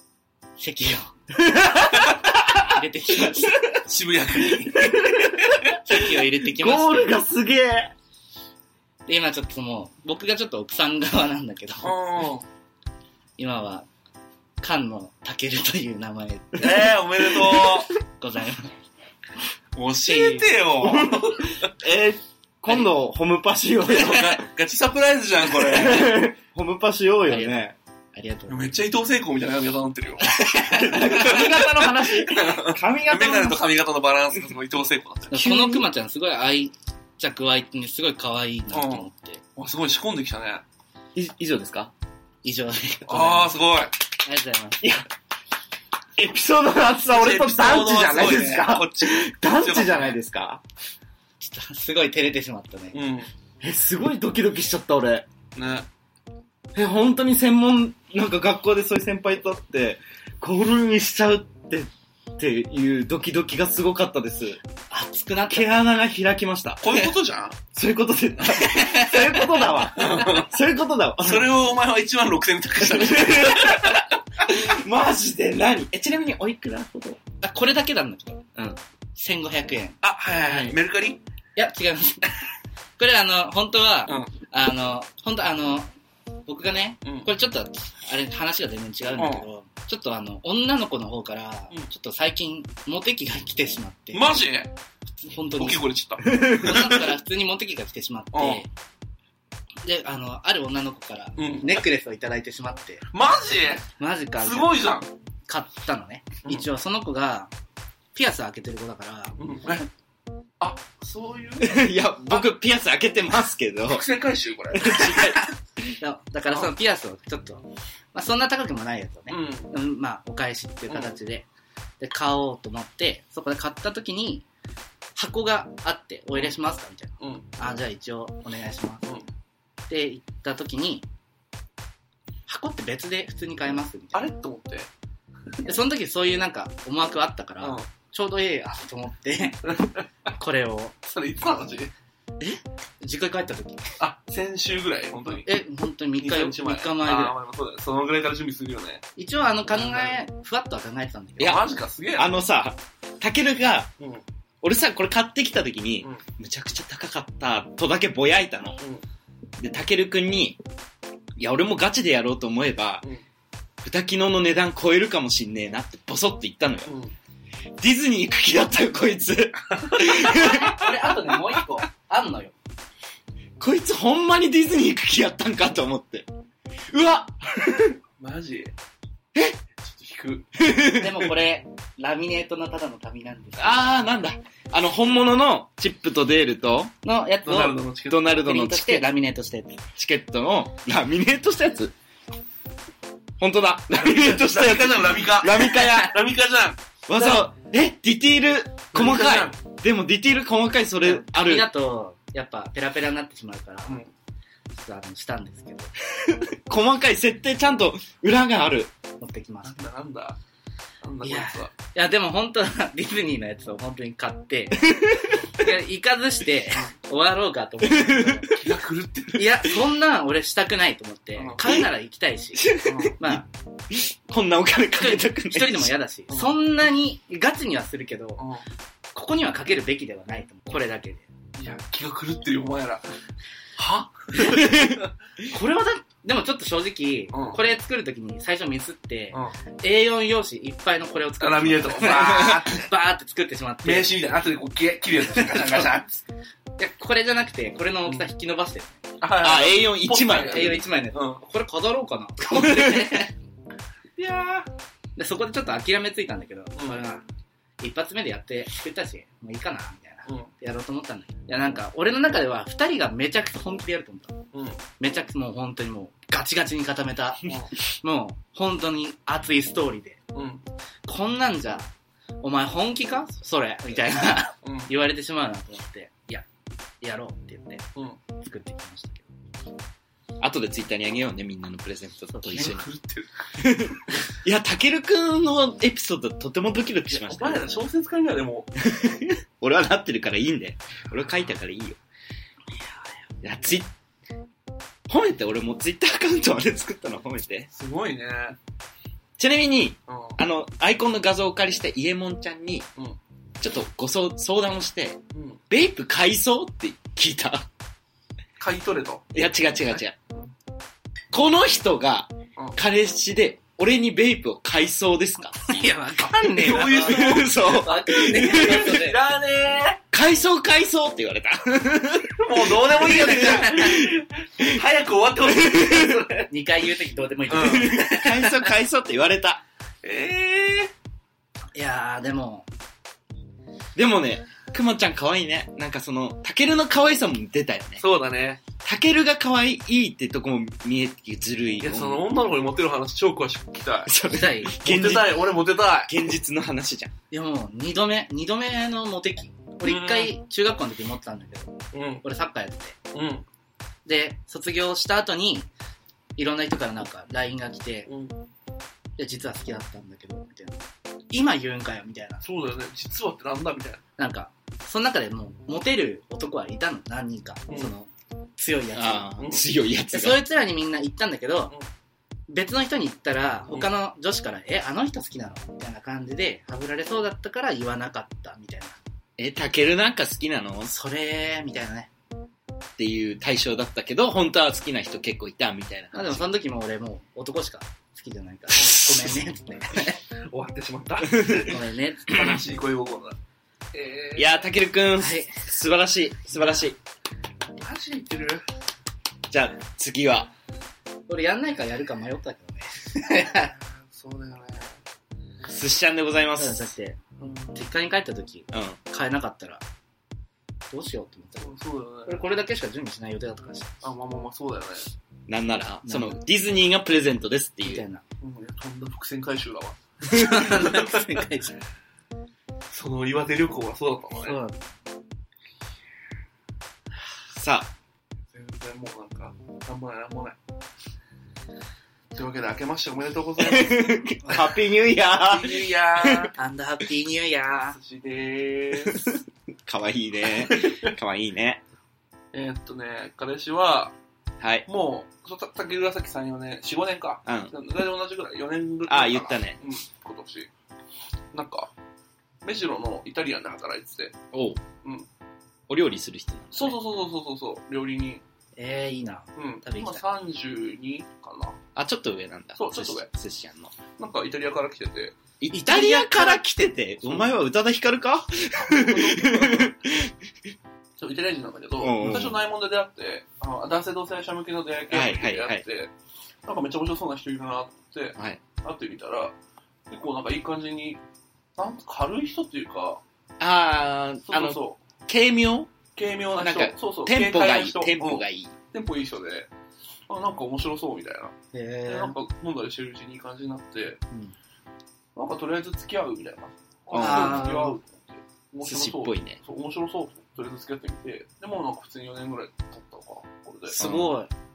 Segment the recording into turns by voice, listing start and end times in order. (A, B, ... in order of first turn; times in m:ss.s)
0:00.6-0:01.1 A
0:01.4-0:02.8 B
0:02.5-0:03.7 A
0:03.8-0:05.6 C
0:04.4-0:07.9 B
0:05.8-0:07.2 A
0:09.1-0:12.0 A
0:11.8-0:12.4 C
0:13.4-0:13.9 A
0:14.6-0:17.0 A
0:16.6-0:17.9 C
0:17.4-0:17.8 B
0:18.2-0:18.7 A
0:19.7-0:21.7 C
0:20.0-0:20.5 A
0:20.8-0:24.4 B
0:23.9-0:26.2 C
0:25.5-0:27.8 B
0:27.3-0:27.5 A
0:28.1-0:28.7 A
0:28.5-0:35.3 C
0:30.2-0:31.3 A
0:30.7-0:33.6 B
0:35.3-0:39.4 A
0:35.3-0:35.9 B
0:38.7-0:40.6 C
0:41.1-0:41.9 B
0:42.4-0:43.6 A
0:43.1-0:43.9 C
0:44.2-0:44.9 A
0:46.2-0:50.6 B
0:47.1-0:50.2 C
0:51.4-0:53.0 A
0:52.9-0:53.3 C
0:53.6-0:55.3 B
0:55.5-0:55.9 C
0:56.7-1:04.6 B
1:04.9-1:05.7 A
1:05.5-1:07.0 B
1:06.8-1:07.6 C
1:07.7-1:11.5 B
1:08.5-1:10.0 A
1:10.0-1:10.5 C
1:11.2-1:14.1 C
1:12.8-1:17.2 B
1:17.4-1:20.8 A
1:20.0-1:21.2 C
1:21.6-1:22.4 A
1:23.0-1:25.9 A
1:26.4-1:34.3 A
1:27.0-1:27.3 C
1:29.2-1:29.4 C
1:34.1-1:34.7 C
1:35.2-1:38.7 A
1:35.6-1:37.1 C
1:36.3-1:36.6 B
1:38.3-1:38.6 C
1:39.8-1:43.0 A
1:41.4-1:41.8 C
1:43.1-1:45.1 C
1:44.0-1:44.8 A
1:45.5-1:47.5 A
1:48.1-1:49.4 A
1:49.4-1:49.9 C
1:50.6-1:52.4 C
1:51.6-1:54.0 B
1:53.8-1:55.4 C
1:54.7-1:55.4 B
1:56.0-2:01.5 A
1:59.3-1:59.7 C
2:00.9-2:01.1 C
2:02.0-2:04.4 A
2:05.2-2:09.1 A
2:07.2-2:07.5 C
2:09.9-2:11.0 A
2:12.5-2:14.3 A
2:14.1-2:14.9 C
2:15.6-2:19.8 A
2:17.6-2:17.8 C
2:19.7-2:20.0 C
2:20.3-2:21.0 A
2:21.0-2:21.9 C
2:22.4-2:23.8 A
2:24.0-2:25.5 C
2:25.4-2:27.3 A
2:26.2-2:29.0 C
2:29.2-2:31.6 A
2:29.7-2:30.1 C
2:31.4-2:31.6 B
2:31.4-2:32.4 C
2:32.2-2:33.9 B
2:34.6-2:38.8 B
2:39.6-2:40.6 B
2:41.4-2:43.0 B
2:43.8-2:46.9 B
2:46.9-2:47.1 C
2:47.8-2:50.8 B
2:49.7-2:50.9 C
2:50.2-2:52.5 A
2:53.6-2:56.3 B
2:56.9-2:58.0 B
2:58.2-2:58.7 C
2:59.3-2:59.6 B
2:59.8-3:00.5 C
3:00.6-3:01.3 B
3:00.8-3:04.2 A
3:03.6-3:06.9 B
3:07.0-3:09.8 A
3:07.4-3:08.3 C
3:08.1-3:09.1 B
3:10.0-3:11.9 B
3:13.4-3:16.2 B
3:13.9-3:17.3 C
3:17.1-3:21.7 B
3:18.9-3:19.6 C
3:21.0-3:24.0 A
3:24.7-3:25.9 A
3:26.3-3:28.9 B
3:29.2-3:29.8 A
3:29.6-3:30.4 C
3:31.0-3:31.7 C
3:31.2-3:38.6 A
3:34.8-3:35.5 B
3:37.8-3:38.6 B
3:38.5-3:39.4 C
3:39.3-3:43.5 A
3:41.4-3:41.6 C
3:41.6-3:41.9 B
3:42.5-3:45.9 B
3:42.8-3:43.2 C
3:45.0-3:48.4 A
3:46.3-3:46.6 C
3:48.4-3:48.6 C
3:49.1-3:51.3 A
3:51.6-3:53.1 C
3:53.8-3:55.1 C
3:54.4-3:55.0 B
3:55.5-4:04.1 A
3:57.3-3:57.6 C
4:01.4-4:02.8 C
4:03.8-4:06.2 C
4:05.3-4:05.9 A
4:06.8-4:09.0 A
4:09.2-4:11.4 C
4:09.4-4:10.8 B
4:10.4-4:13.3 A
4:12.6-4:13.0 B
4:14.2-4:14.7 C
4:15.2-4:17.2 A
4:16.8-4:17.0 C
4:17.8-4:24.4 A
4:24.5-4:24.8 C
4:25.0-4:30.2 A
4:30.3-4:30.6 C
4:31.1-4:31.9 A
4:32.4-4:36.5 A
4:34.6-4:34.9 C
4:37.0-4:39.3 A
4:40.4-4:42.9 B
4:42.3-4:42.7 A
4:42.5-4:43.3 C
4:43.6-4:47.7 B
4:47.1-4:48.7 C
4:48.8-4:52.0 B
4:51.0-4:51.6 C
4:53.4-4:53.9 B
4:55.1-4:57.7 B
4:57.7-4:58.6 C
4:59.4-5:02.9 B
5:00.1-5:00.4 C
5:03.6-5:07.7 B
5:05.3-5:05.6 C
5:08.6-5:09.3 C
5:09.3-5:10.1 B
5:09.9-5:10.5 C
5:11.3-5:15.8 B
5:15.6-5:19.2 A
5:16.4-5:20.0 C
5:16.7-5:19.0 B
5:20.1-5:24.8 B
5:22.4-5:26.5 C
5:23.1-5:24.0 A
5:25.4-5:26.3 B
5:26.5-5:28.7 A
5:27.5-5:27.9 C
5:27.5-5:29.6 B
5:30.0-5:30.9 C
5:31.7-5:32.6 A
5:33.9-5:38.0 B
5:38.0-5:38.6 C
5:38.8-5:42.2 B
5:41.8-5:44.1 C
5:44.1-5:45.5 B
5:44.3-5:44.8 A
5:44.8-5:46.1 C
5:46.0-5:47.1 B
5:47.3-5:53.0 A
5:49.8-5:50.3 C
5:51.9-5:52.2 C
5:53.1-5:53.4 C
5:54.0-5:55.7 A
5:56.4-5:58.1 A
5:58.1-5:58.4 C
5:59.2-6:02.4 A
6:02.4-6:04.0 C
6:04.2-6:09.3 A
6:08.9-6:10.4 B
6:09.4-6:09.6 C
6:10.1-6:11.7 A
6:12.5-6:19.0 A
6:19.4-6:20.9 B
6:20.8-6:22.1 A
6:23.0-6:26.5 B
6:26.1-6:30.2 A
6:28.8-6:29.2 C
6:30.5-6:33.4 C
6:31.4-6:32.6 A
6:33.9-6:34.7 C
6:34.4-6:37.0 B
6:35.2-6:35.5 A
6:37.8-6:38.6 C
6:39.5-6:40.5 B
6:41.3-6:43.7 A
6:43.5-6:45.0 C
6:45.6-6:46.9 B
6:46.6-6:47.2 A
6:47.4-6:47.9 C
6:47.7-6:49.8 A
6:48.7-6:49.0 B
6:50.9-6:54.0 A
6:51.6-6:52.4 C
6:54.0-6:55.1 C
6:55.5-6:58.0 B
6:56.0-6:56.4 A
6:57.8-6:58.2 A
6:58.4-7:01.4 C
7:00.2-7:01.8 A
7:02.9-7:04.6 C
7:04.4-7:04.9 A
7:07.5-7:07.9 B
7:08.5-7:10.6 C
7:12.3-7:14.2 C
7:13.6-7:16.5 B
7:15.4-7:16.5 C
7:16.5-7:18.0 A
7:17.9-7:19.3 C
7:19.0-7:21.8 B
7:20.5-7:21.1 C
7:22.5-7:24.1 C
7:24.6-7:24.8 B
7:24.8-7:30.7 C
7:27.4-7:27.7 B
7:29.1-7:29.8 B
7:31.5-7:31.9 C
7:32.6-7:34.3 C
7:34.5-7:34.8 B
7:35.9-7:37.0 B
7:36.7-7:38.4 C
7:38.8-7:40.2 A
7:39.6-7:41.8 C
7:42.0-7:43.9 B
7:42.8-7:43.3 C
7:44.2-7:45.3 C
7:45.6-7:50.3 B
7:45.7-7:46.7 A
7:48.8-7:50.0 C
7:51.2-7:56.1 C
7:52.0-7:52.6 B
7:55.1-7:55.8 B
7:56.6-7:59.5 C
8:00.1-8:01.2 C
8:01.8-8:03.2 C
8:03.6-8:05.9 B
8:04.5-8:05.0 C
8:06.2-8:09.7 C
8:06.6-8:08.7 B
8:10.3-8:14.2 C
8:11.7-8:12.4 A
8:15.4-8:24.0 C
8:17.1-8:17.6 B
8:17.1-8:18.0 A
8:18.8-8:19.6 B
8:23.9-8:24.4 B
8:23.9-8:24.5 A